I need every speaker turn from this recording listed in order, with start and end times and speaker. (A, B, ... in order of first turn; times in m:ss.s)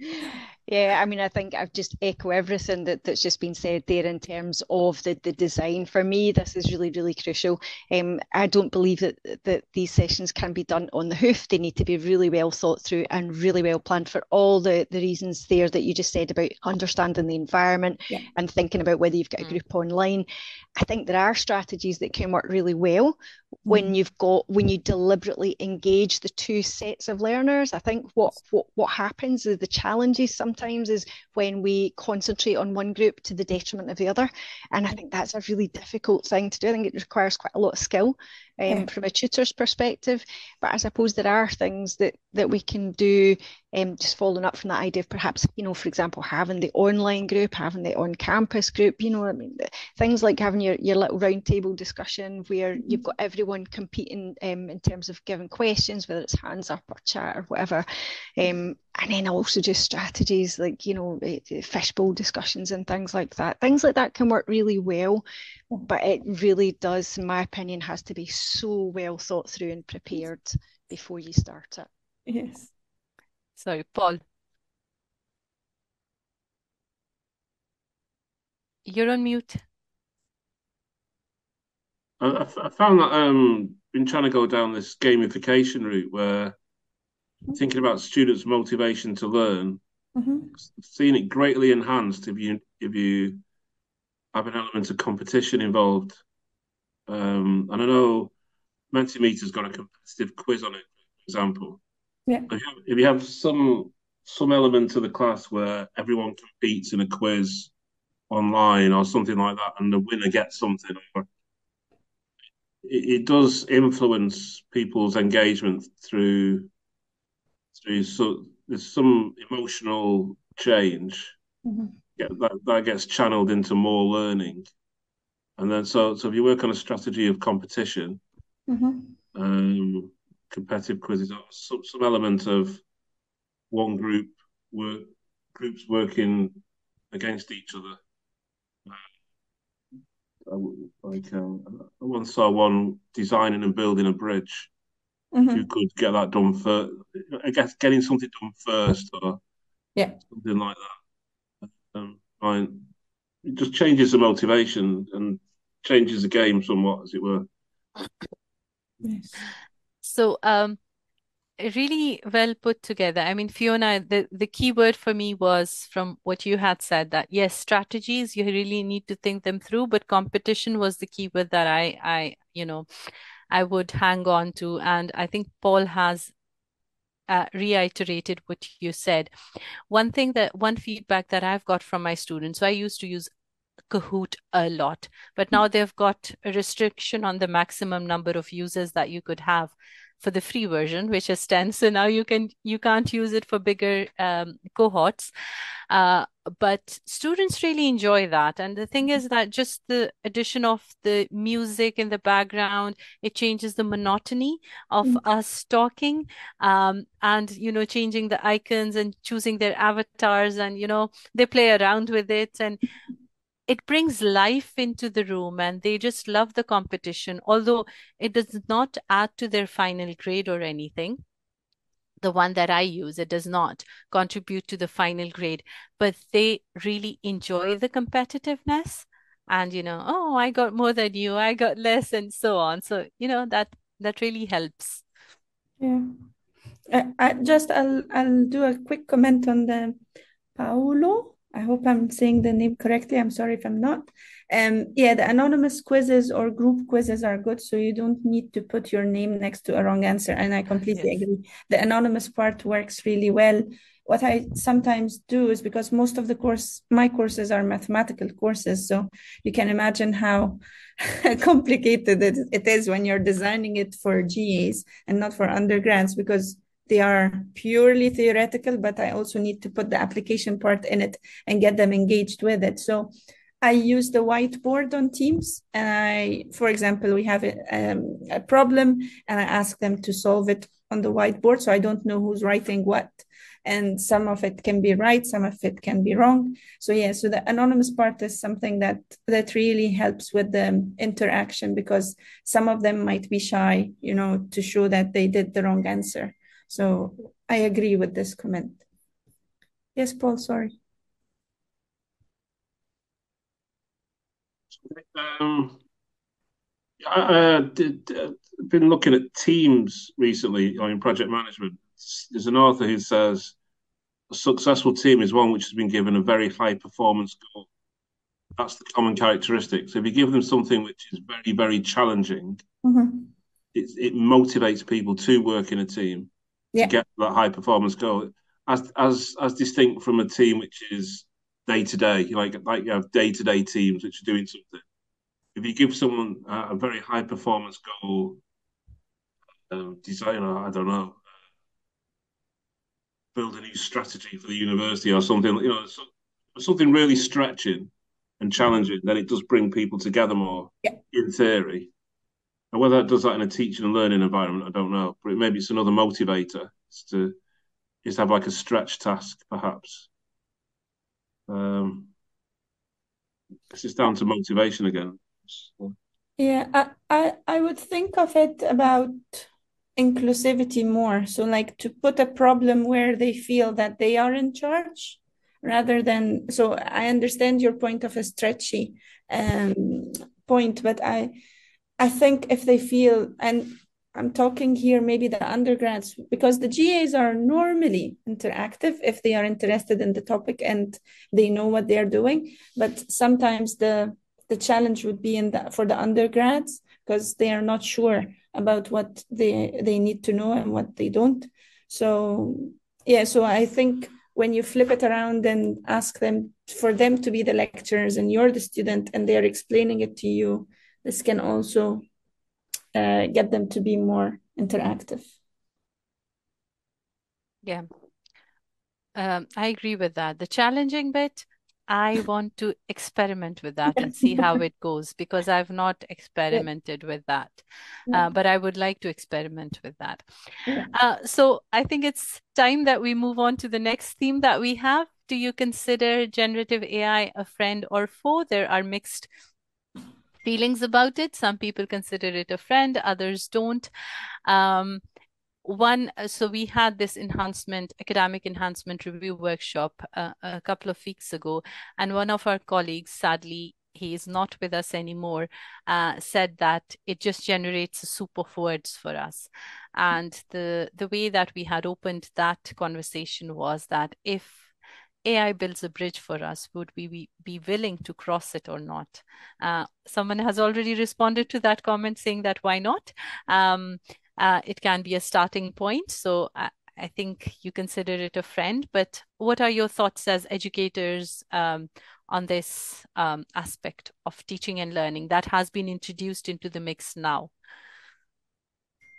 0:00.1-0:57.9 A
0:23.7-0:23.9 B
0:58.4-1:05.2 A
1:05.9-1:11.9 A
1:12.3-1:12.7 B
1:13.6-1:14.2 C
1:18.9-1:19.6 C
1:22.2-1:26.6 D
1:27.6-1:29.8 D
1:30.2-1:30.5 B
1:30.6-1:33.4 D
1:34.3-1:36.2 D
1:37.1-1:38.3 D
1:38.9-1:41.8 D
1:42.5-1:47.7 D
1:48.3-1:51.3 D
1:52.8-1:56.7 D
1:57.8-2:01.3 D
2:01.6-2:01.9 B
2:02.2-2:04.7 D
2:05.6-2:08.2 D
2:08.7-2:09.2 B
2:09.4-2:12.8 D
2:13.7-2:16.6 D
2:17.1-2:18.0 D
2:20.5-2:24.7 D
2:25.3-2:25.6 B
2:25.5-2:29.4 D
2:30.3-2:30.9 D
2:31.9-2:32.9 D
2:33.4-2:37.5 D
2:39.0-2:39.4 B
2:40.0-2:40.8 C
2:41.6-2:52.9 C
2:53.5-2:56.3 C
2:57.3-2:59.3 C
2:59.9-3:03.3 C
3:03.9-3:15.3 C
3:15.9-3:32.8 C
3:33.7-3:41.2 C
3:42.2-3:55.0 C
3:55.8-3:56.1 B
3:56.9-4:00.0 B
4:00.6-4:58.8 B
5:00.0-5:00.8 B
5:04.8-5:05.8 D
5:07.0-5:13.6 D
5:14.3-5:17.7 D
5:18.6-5:22.6 D
5:22.8-5:23.3 B
5:23.7-5:34.8 D
5:35.6-5:38.4 D
5:39.7-5:41.2 D
5:43.4-5:51.9 D
5:52.7-5:57.4 D
5:58.0-6:00.1 D
6:01.5-6:02.1 D
6:03.7-6:06.0 D
6:06.4-6:21.4 B
6:22.0-6:52.0 B
6:52.9-6:55.3 B
6:59.2-7:10.2 C
7:04.0-7:04.4 B
7:10.9-7:19.3 C
7:20.4-7:23.9 C
7:24.5-7:25.0 C
7:25.6-7:44.7 C
7:45.2-8:07.5 C